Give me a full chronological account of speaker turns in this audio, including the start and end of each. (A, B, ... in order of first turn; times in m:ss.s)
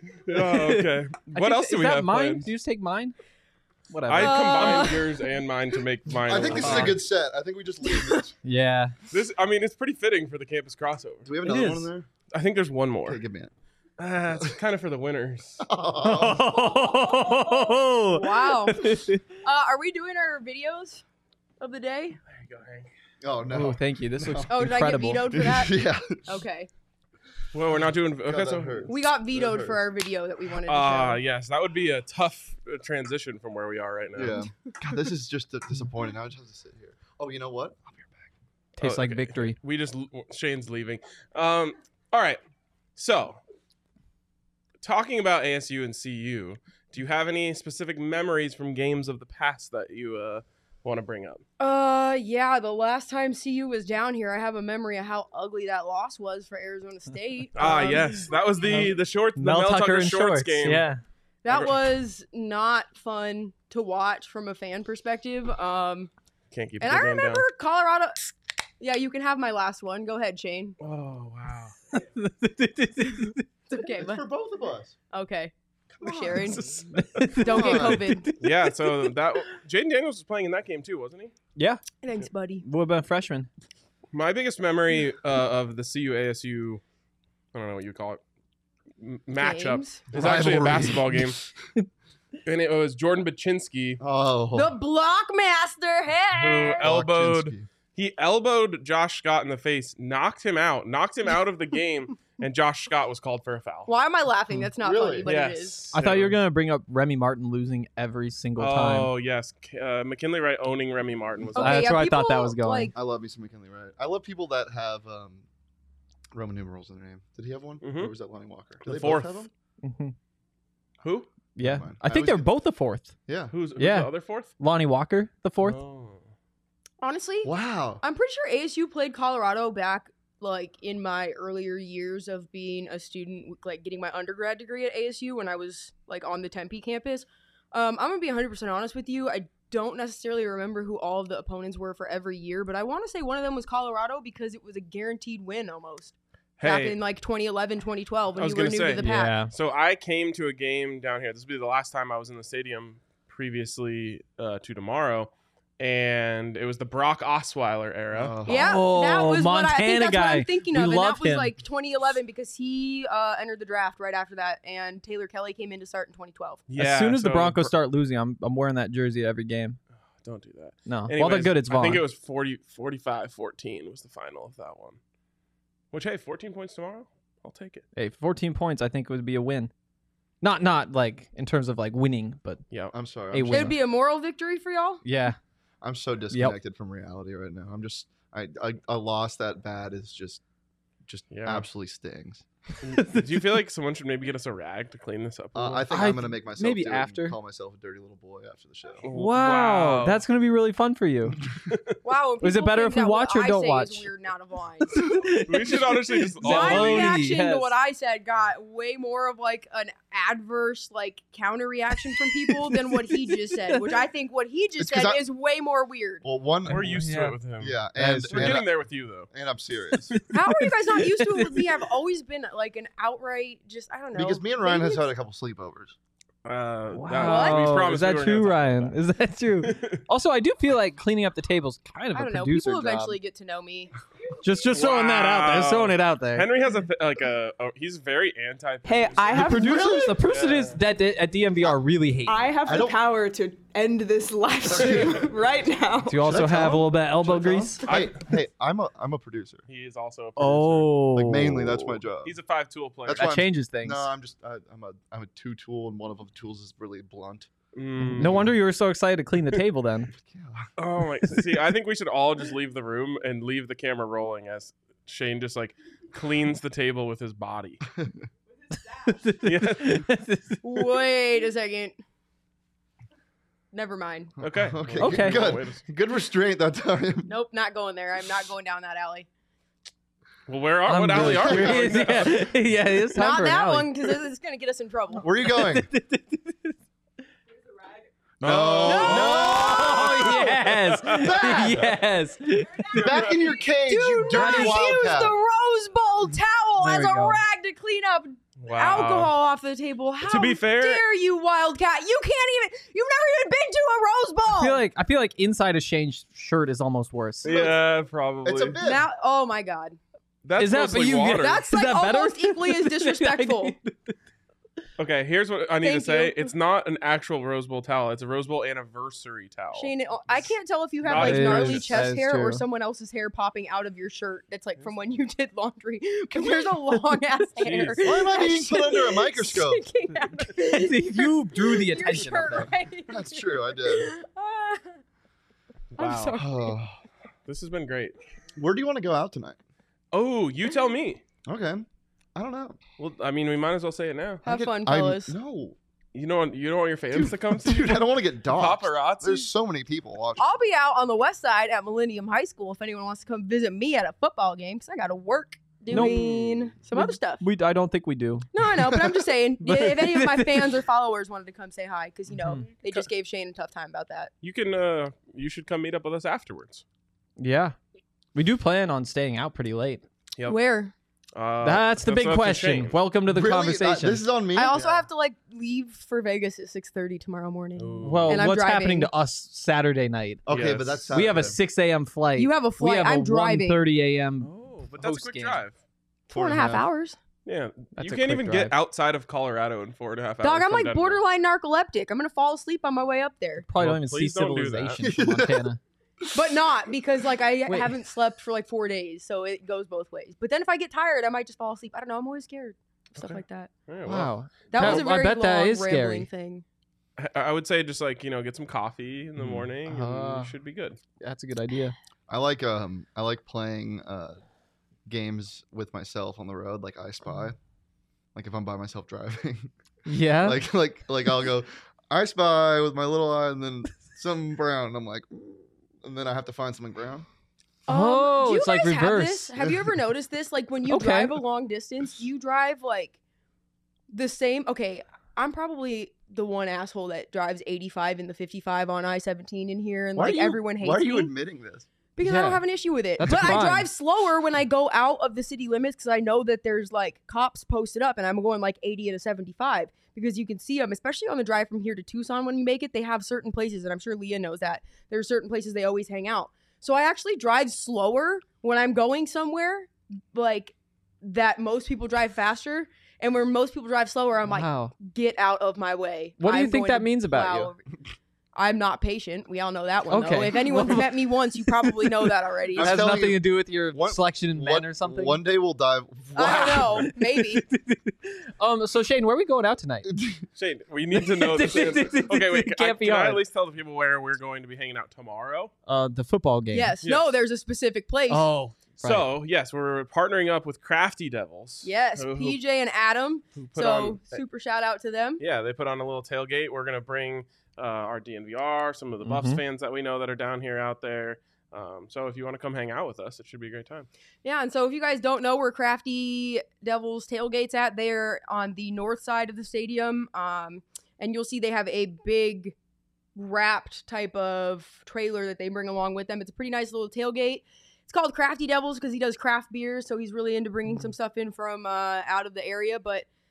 0:00.2-0:02.5 A
0:00.3-0:03.1 B
0:03.9-0:04.9 B
0:04.1-0:07.0 A
0:04.1-0:05.2 C
0:06.2-0:08.3 D
0:06.5-0:07.0 B
0:08.4-0:08.9 B
0:09.1-0:11.3 A
0:11.2-0:12.1 D
0:11.4-0:11.9 B
0:12.3-0:13.2 A
0:13.0-0:13.5 D
0:14.0-0:15.6 A
0:15.6-0:16.6 D
0:16.0-0:19.2 B
0:16.8-0:21.0 C
0:21.6-0:22.2 C
0:22.3-0:22.9 A
0:23.2-0:24.7 D
0:23.5-0:25.3 B
0:24.5-0:26.7 C
0:25.3-0:26.4 D
0:27.5-0:28.9 A
0:28.2-0:29.8 D
0:28.9-0:31.2 C
0:30.6-0:34.4 A
0:34.1-0:38.3 D
0:38.8-0:39.6 B
0:38.8-0:42.4 A
0:43.0-0:43.4 A
0:44.8-0:51.4 A
0:51.6-0:58.8 C
0:57.6-1:00.8 A
0:58.6-1:01.0 B
1:01.4-1:06.1 C
1:01.5-1:01.8 A
1:06.5-1:07.4 A
1:06.8-1:10.8 C
1:10.8-1:11.7 A
1:11.9-1:13.4 B
1:13.7-1:14.2 C
1:14.0-1:14.9 D
1:15.1-1:16.7 C
1:16.1-1:17.9 A
1:16.9-1:18.9 B
1:17.4-1:18.3 C
1:17.5-1:18.0 D
1:18.4-1:21.3 A
1:21.6-1:21.8 B
1:22.0-1:22.6 C
1:22.6-1:23.5 B
1:24.1-1:26.8 A
1:27.5-1:28.2 A
1:29.0-1:31.4 A
1:29.4-1:30.4 C
1:30.1-1:31.4 D
1:32.4-1:34.0 A
1:34.0-1:34.8 D
1:34.5-1:36.8 C
1:36.3-1:43.9 A
1:36.8-1:37.7 D
1:43.9-1:45.9 C
1:44.8-1:45.3 D
1:45.2-1:46.4 A
1:45.9-1:49.1 B
1:48.6-1:51.9 A
1:51.5-1:52.9 C
1:51.6-1:52.9 B
1:52.9-1:55.4 D
1:56.3-1:59.5 D
1:57.8-1:58.1 A
1:58.8-1:59.4 A
1:59.8-2:00.1 B
2:01.0-2:01.3 A
2:01.6-2:03.1 B
2:01.6-2:02.5 D
2:03.3-2:03.5 D
2:03.5-2:04.5 A
2:03.8-2:05.8 B
2:05.6-2:06.2 A
2:07.0-2:29.4 C
2:07.4-2:08.0 D
2:26.6-2:27.0 A
2:28.4-2:38.4 A
2:29.0-2:29.5 B
2:38.1-2:38.8 D
2:38.4-2:46.6 C
2:38.5-2:41.5 B
2:46.7-2:47.7 A
2:46.8-2:49.8 B
2:50.2-2:55.0 A
2:50.9-2:52.0 B
2:55.9-2:57.8 A
2:57.9-2:59.7 B
3:00.4-3:02.6 B
3:02.9-3:03.8 D
3:03.3-3:03.8 B
3:03.5-3:05.0 C
3:05.0-3:05.4 B
3:05.8-3:10.4 D
3:11.0-3:12.4 D
3:11.3-3:11.6 A
3:12.8-3:13.4 B
3:12.8-3:15.9 A
3:15.5-3:19.0 D
3:15.9-3:17.4 B
3:19.0-3:20.2 A
3:19.1-3:21.4 B
3:21.7-3:22.0 A
3:22.0-3:25.1 C
3:22.4-3:24.1 B
3:24.9-3:27.7 B
3:25.4-3:27.2 A
3:26.4-3:36.2 C
3:32.2-3:34.0 B
3:34.8-3:35.2 D
3:36.2-3:37.0 D
3:36.7-3:39.3 A
3:36.7-3:37.4 B
3:37.6-3:38.7 D
3:38.0-3:38.6 B
3:39.3-3:40.2 D
3:40.1-3:41.7 B
3:40.3-3:45.1 C
3:44.1-3:45.9 D
3:46.4-3:48.9 A
3:46.9-3:53.2 B
3:47.2-3:47.8 C
3:49.6-3:50.0 A
3:52.1-3:53.9 C
3:54.4-3:56.5 B
3:54.7-3:59.5 A
3:58.8-4:00.1 E
3:59.3-4:02.4 B
3:59.4-4:00.2 D
4:00.2-4:00.8 A
4:02.2-4:06.3 E
4:02.6-4:03.0 D
4:04.7-4:05.3 D
4:06.1-4:07.8 B
4:06.2-4:09.6 D
4:07.9-4:08.2 A
4:09.7-4:10.9 A
4:10.4-4:11.9 B
4:11.1-4:12.4 D
4:12.2-4:13.4 A
4:13.0-4:17.5 D
4:13.2-4:14.1 B
4:17.7-4:18.5 A
4:18.0-4:18.5 D
4:18.2-4:20.1 B
4:20.1-4:20.7 D
4:20.8-4:27.8 A
4:28.9-4:30.8 B
4:29.4-4:30.1 A
4:30.6-4:32.0 C
4:33.7-4:34.3 C
4:34.4-4:37.3 D
4:34.4-4:35.8 A
4:35.0-4:35.5 B
4:37.2-4:39.3 C
4:40.5-4:42.5 A
4:40.9-4:44.2 B
4:41.1-4:41.9 D
4:43.1-4:45.3 C
4:45.2-4:45.9 D
4:45.5-4:46.7 B
4:48.4-4:50.0 D
4:48.4-4:51.8 A
4:48.8-4:50.3 C
4:48.8-4:53.1 B
4:51.1-4:51.9 D
4:52.9-4:55.4 D
4:52.9-4:53.4 A
4:53.8-5:04.8 C
4:54.3-4:55.2 B
4:56.8-4:57.4 B
4:58.6-4:59.3 A
5:00.2-5:01.0 A
5:04.5-5:07.5 B
5:07.4-5:08.8 A
5:07.4-5:07.8 D
5:08.4-5:09.0 D
5:08.8-5:10.0 C
5:10.4-5:11.6 A
5:10.6-5:14.1 B
5:11.3-5:13.8 C
5:15.0-5:19.9 A
5:15.8-5:16.5 C
5:19.7-5:35.0 C
5:21.0-5:22.0 A
5:21.1-5:22.6 B
5:26.3-5:26.8 D
5:27.6-5:28.0 A
5:28.0-5:29.8 D
5:30.4-5:32.7 B
5:33.1-5:34.1 D
5:36.0-5:36.7 C
5:36.0-5:36.3 B
5:36.4-5:37.0 D
5:37.4-5:38.2 A
5:38.6-5:39.6 D
5:40.1-5:41.2 A
5:41.4-5:42.8 D
5:43.0-5:44.4 A
5:44.4-5:45.3 C
5:44.4-5:45.8 D
5:46.1-5:49.5 A
5:47.1-5:50.5 D
5:50.4-5:57.4 C
5:55.9-5:56.3 B
5:55.9-5:56.6 A
5:56.9-5:58.5 B
5:58.5-6:04.3 C
5:59.6-6:00.8 B
6:02.3-6:02.6 B
6:02.8-6:03.1 A
6:04.4-6:06.8 A
6:07.4-6:07.8 B
6:08.3-6:10.0 B
6:10.4-6:10.9 C
6:11.3-6:13.0 A
6:11.6-6:14.2 B
6:13.2-6:14.8 D
6:14.5-6:19.1 C
6:14.7-6:15.0 A
6:17.8-6:18.5 A
6:18.0-6:20.4 B
6:20.4-6:21.6 D
6:20.5-6:21.1 A
6:21.1-6:25.6 B
6:22.4-6:23.8 C
6:24.4-6:25.8 A
6:26.3-6:27.2 C
6:26.3-6:26.8 D
6:27.4-6:31.2 A
6:28.0-6:28.7 B
6:30.4-6:33.6 C
6:33.6-6:35.8 B
6:33.8-6:35.0 A
6:35.0-6:35.7 D
6:36.2-6:36.6 D
6:36.3-6:43.7 C
6:37.7-6:38.0 B
6:43.1-6:45.0 A
6:44.0-6:46.3 B
6:44.7-6:46.6 C
6:47.2-6:51.0 A
6:49.8-6:50.5 B
6:51.2-6:51.9 B
6:52.3-6:54.4 D
6:55.1-6:57.6 D
6:58.3-6:59.7 D
7:00.0-7:00.6 B
7:00.4-7:07.3 D
7:07.9-7:09.5 B
7:07.9-7:13.2 C
7:09.6-7:09.9 D
7:10.9-7:11.3 B
7:14.1-7:21.3 C
7:20.2-7:21.8 D
7:22.2-7:47.8 C
7:22.2-7:22.6 B
7:23.2-7:23.9 B
7:44.5-7:44.9 B
7:46.4-7:47.7 B
7:48.5-7:53.2 C
7:50.1-7:55.4 B
7:52.7-7:57.1 D
7:56.3-7:57.6 C
7:56.6-8:00.1 B
8:00.1-8:00.4 D
8:00.6-8:05.7 A
8:01.2-8:03.4 B
8:05.9-8:07.0 B
8:06.7-8:08.5 C
8:07.0-8:07.3 A
8:08.3-8:09.3 B
8:09.0-8:12.6 A
8:11.8-8:15.4 C
8:13.6-8:14.4 A
8:15.4-8:24.1 A
8:19.2-8:19.6 B
8:24.4-8:32.7 C
8:33.3-8:43.3 C